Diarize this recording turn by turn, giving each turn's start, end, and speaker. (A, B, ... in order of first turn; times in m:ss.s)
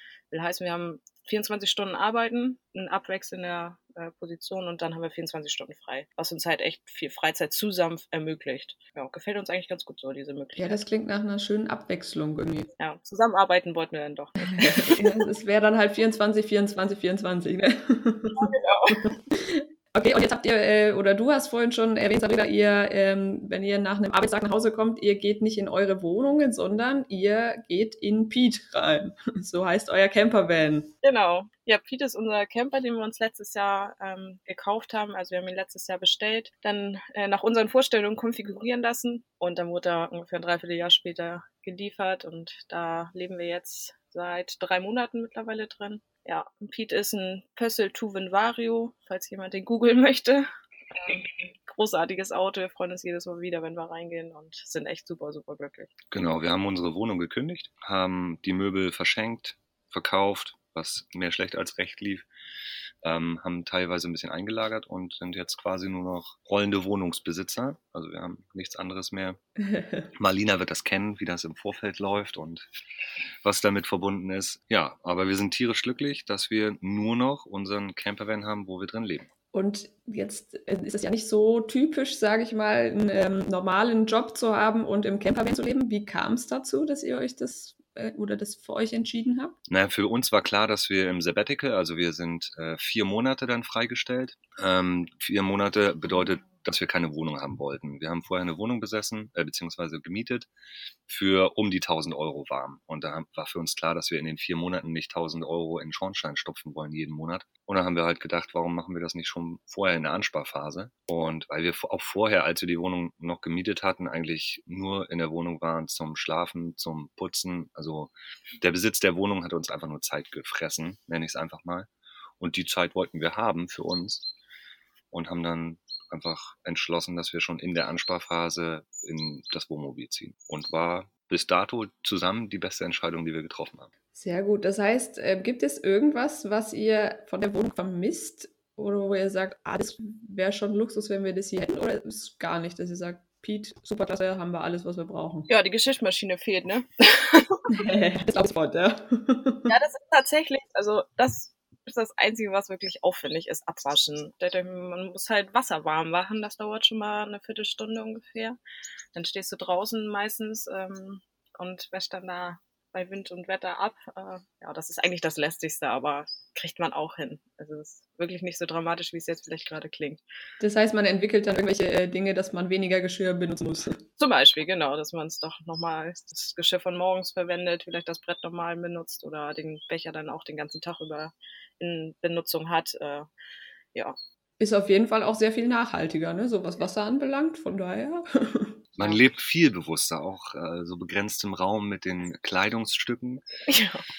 0:00.3-0:10.8 A
0:10.6-0:12.7 B
0:12.8-0:15.3 A
0:14.6-0:18.5 B
0:18.4-0:19.1 A
0:19.3-0:30.9 B
0:31.0-0:56.0 A
0:56.1-1:02.3 C
1:03.0-1:09.4 C
1:09.7-1:10.1 B
1:10.2-1:12.7 C
1:13.4-1:19.3 C
1:19.5-1:29.6 B
1:29.7-1:40.5 C
1:41.1-2:04.3 C
2:05.1-2:13.9 C
2:14.1-2:25.5 B
2:25.5-2:27.6 A
2:27.7-2:29.7 B
2:29.7-2:38.6 A
2:39.1-2:50.2 A
2:50.6-2:54.0 B
2:54.2-3:03.3 A
3:04.6-3:08.8 B
3:09.0-3:13.4 C
3:13.7-3:14.0 A